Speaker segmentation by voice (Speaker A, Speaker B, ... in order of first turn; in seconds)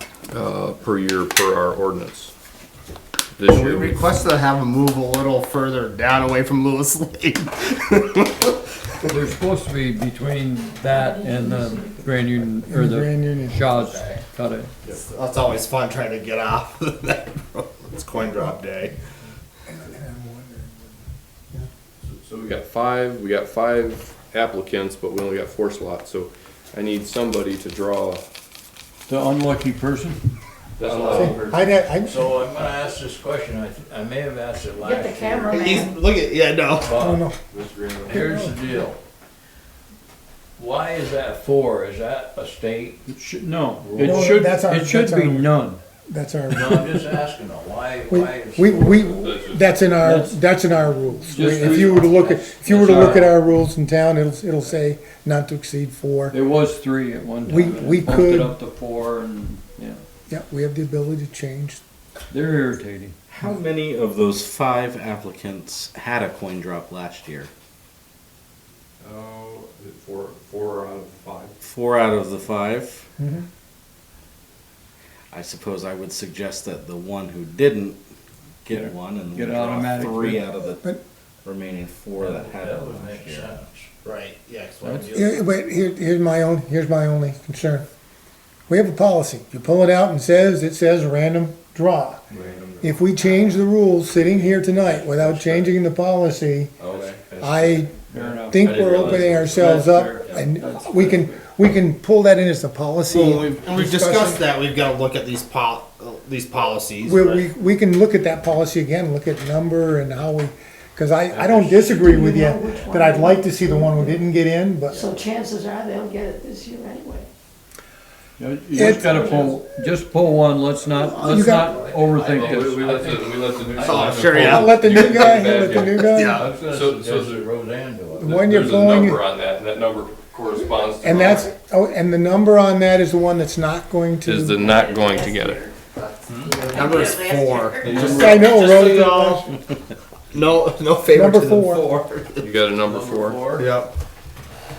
Speaker A: 0.3-2.3, 3.4-4.0, 22.4-28.2, 30.8-31.7, 37.5-38.3, 49.1-49.9, 69.0-71.5, 121.8-127.4, 128.2-131.5, 134.2-135.7, 142.4-143.4
Speaker B: 3.5-8.6, 14.8-19.0, 35.5-36.9, 84.0-85.4, 103.1-107.5, 123.8-126.5, 136.4-139.6, 140.3-142.5, 143.5-143.9
Speaker C: 9.1-14.7, 29.1-30.2, 43.1-45.8, 50.0-50.4, 51.3-53.4, 56.3-60.0, 62.3-63.2, 78.7-80.5, 98.1-101.4, 118.4-123.2, 137.8-139.2
Speaker D: 10.9-12.0, 34.8-36.0, 111.8-114.3, 114.9-117.3, 118.8-119.6, 134.7-138.3
Speaker E: 12.7-13.6, 18.2-18.6, 19.7-21.7, 31.1-32.8, 36.9-37.4, 38.1-38.5, 44.0-45.5, 46.1-47.1, 48.1-56.4, 57.5-58.6, 60.3-61.8, 73.2-73.5, 85.1-87.9, 88.7-92.3, 92.8-96.8, 97.4-97.9, 98.5-104.4, 107.0-115.0, 118.7-119.5, 121.1-121.8, 124.4-126.4, 128.2-129.2, 130.7-134.9, 138.1-139.4, 141.1-141.8
Speaker F: 22.1-22.5, 30.8-31.4, 32.0-35.8, 36.8-37.3, 38.0-39.0, 40.6-43.0, 43.8-44.4, 46.5-49.3, 51.5-52.0, 82.2-83.9, 84.8-85.5, 111.3-112.0, 121.6-128.7, 136.3-136.8, 137.9-138.2, 142.8-143.7
Speaker G: 63.3-67.5, 71.6-73.0, 75.3-78.0, 78.6-80.8, 81.4-83.6, 92.3-92.9, 95.2-95.6, 96.8-98.4, 99.1-99.5